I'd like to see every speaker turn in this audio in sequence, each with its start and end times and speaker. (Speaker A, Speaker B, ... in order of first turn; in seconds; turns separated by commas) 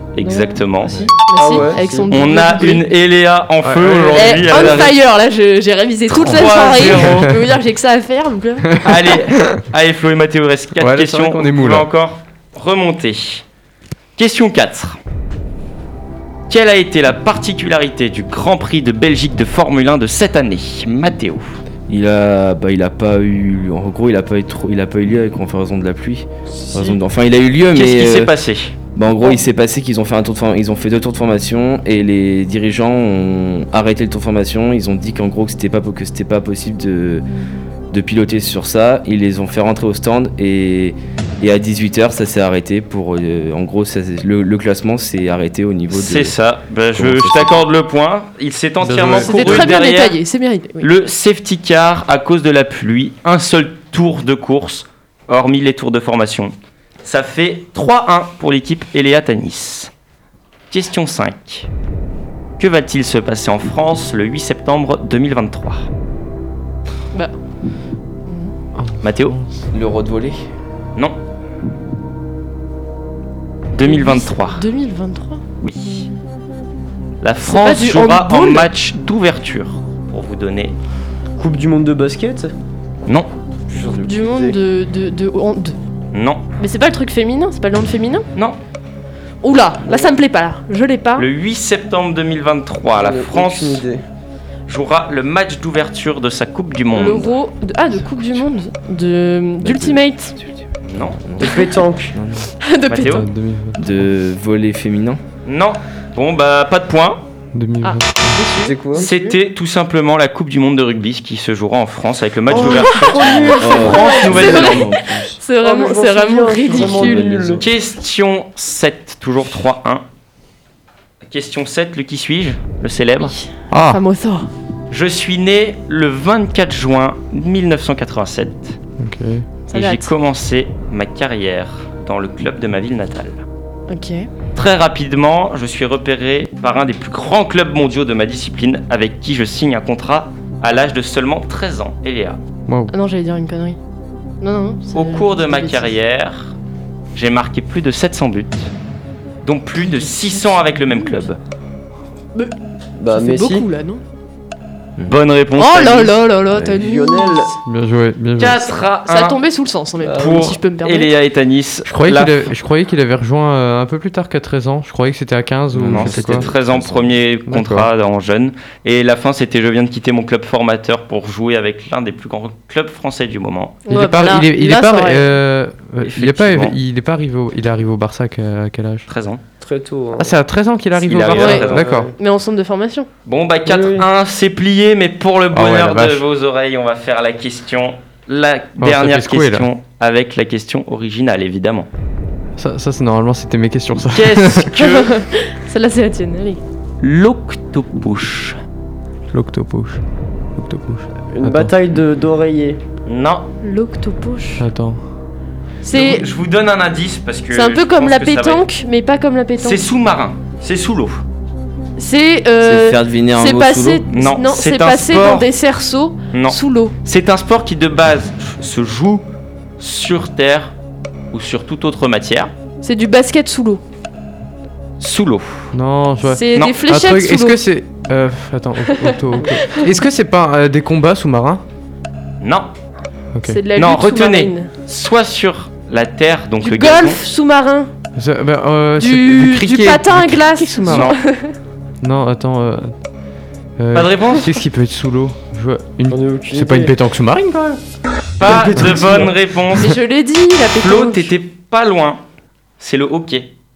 Speaker A: 0.1-1.1, Speaker B: 0.2-0.6, Speaker C: 0.9-2.3, Speaker B: 1.2-2.8, Speaker A: 2.1-5.0, Speaker D: 3.6-4.8, Speaker B: 4.1-8.9, Speaker A: 6.1-7.3, Speaker D: 6.8-7.3, Speaker D: 8.7-9.6, Speaker A: 8.8-13.4, Speaker D: 10.8-11.9, Speaker A: 14.2-15.0, Speaker A: 16.5-21.6, Speaker E: 21.9-28.3, Speaker C: 26.6-27.0, Speaker A: 27.7-28.7, Speaker E: 28.9-37.2, Speaker E: 37.9-46.4, Speaker A: 45.9-50.2, Speaker E: 47.0-47.6, Speaker D: 48.8-49.8, Speaker B: 49.2-50.9, Speaker A: 50.8-56.5, Speaker A: 57.0-59.9, Speaker A: 60.7-61.7, Speaker A: 62.6-65.9, Speaker B: 68.3-68.5, Speaker D: 68.8-69.6, Speaker A: 69.0-69.4, Speaker E: 69.7-70.5, Speaker A: 73.7-74.6, Speaker B: 73.8-75.4, Speaker A: 75.6-76.1, Speaker A: 77.2-80.8, Speaker B: 77.4-78.7, Speaker C: 81.4-82.5, Speaker C: 83.7-84.6, Speaker B: 84.0-85.8, Speaker A: 86.1-86.4, Speaker B: 86.6-88.3, Speaker B: 89.4-91.3, Speaker C: 89.9-90.1, Speaker A: 91.2-93.9, Speaker C: 93.0-94.0, Speaker A: 94.7-97.3, Speaker B: 96.9-100.4, Speaker E: 99.6-102.5, Speaker A: 100.9-101.2, Speaker C: 101.4-102.2, Speaker B: 102.6-103.2, Speaker A: 102.9-103.3, Speaker D: 103.0-103.9, Speaker E: 103.8-105.2, Speaker A: 105.5-107.3, Speaker D: 107.5-108.4, Speaker B: 107.8-108.8, Speaker C: 108.5-109.3, Speaker A: 108.9-114.9, Speaker C: 112.5-113.8, Speaker B: 112.5-117.3, Speaker E: 113.2-115.4, Speaker C: 115.6-117.6, Speaker E: 116.7-117.7, Speaker A: 117.6-120.0, Speaker A: 121.3-123.3, Speaker B: 123.2-124.5, Speaker D: 123.7-124.0, Speaker A: 124.9-128.8, Speaker D: 129.0-129.5, Speaker B: 129.7-130.1, Speaker A: 129.7-133.4, Speaker B: 133.9-134.3, Speaker A: 134.6-142.4, Speaker D: 142.7-142.9, Speaker B: 142.9-143.8, Speaker B: 144.4-145.9, Speaker A: 144.9-146.6, Speaker A: 147.1-148.7, Speaker A: 149.4-151.4, Speaker B: 149.8-151.3, Speaker C: 153.0-153.7, Speaker B: 153.1-154.0, Speaker A: 155.1-156.2, Speaker B: 155.6-157.5, Speaker E: 156.5-156.8, Speaker C: 156.7-157.5, Speaker D: 157.7-158.7, Speaker A: 158.4-159.4, Speaker B: 159.1-161.1, Speaker C: 160.0-160.5, Speaker A: 160.1-162.5, Speaker D: 161.9-166.5, Speaker E: 165.7-167.2, Speaker A: 165.8-173.8, Speaker D: 167.5-167.9, Speaker B: 173.9-175.2, Speaker D: 173.9-179.1, Speaker A: 176.0-176.8, Speaker A: 179.1-179.4, Speaker C: 179.6-180.4, Speaker D: 180.2-182.1, Speaker A: 181.0-181.9, Speaker B: 181.3-183.1, Speaker C: 181.3-182.1, Speaker A: 183.3-191.9, Speaker C: 183.7-184.1, Speaker D: 185.5-186.2, Speaker D: 188.8-189.7, Speaker D: 192.6-194.7, Speaker A: 194.1-195.1, Speaker B: 194.8-196.6, Speaker A: 197.0-198.6, Speaker D: 199.3-200.0, Speaker D: 200.6-201.7, Speaker C: 201.3-202.8, Speaker A: 203.1-203.5, Speaker B: 203.6-204.6, Speaker D: 204.6-205.0, Speaker B: 205.8-206.3, Speaker A: 205.9-208.7, Speaker B: 207.5-209.8, Speaker A: 209.6-211.2, Speaker B: 212.0-216.9, Speaker E: 212.6-214.0, Speaker A: 214.1-215.5, Speaker A: 216.3-219.2, Speaker A: 219.8-220.7, Speaker A: 221.3-222.5, Speaker B: 222.8-223.8, Speaker A: 225.0-225.7, Speaker D: 225.7-231.6, Speaker B: 226.2-227.6, Speaker B: 228.9-229.9, Speaker A: 232.4-232.7, Speaker D: 233.3-233.6, Speaker B: 233.4-234.7, Speaker A: 233.8-237.2, Speaker B: 236.6-237.9, Speaker D: 238.2-241.1, Speaker B: 239.0-241.6, Speaker A: 240.9-241.2, Speaker D: 242.0-242.9, Speaker D: 243.8-247.8, Speaker A: 243.9-244.5, Speaker C: 246.1-246.9, Speaker A: 248.4-250.0, Speaker C: 248.4-249.3, Speaker D: 248.6-249.3, Speaker B: 249.7-251.3, Speaker A: 250.8-252.2, Speaker A: 252.8-253.5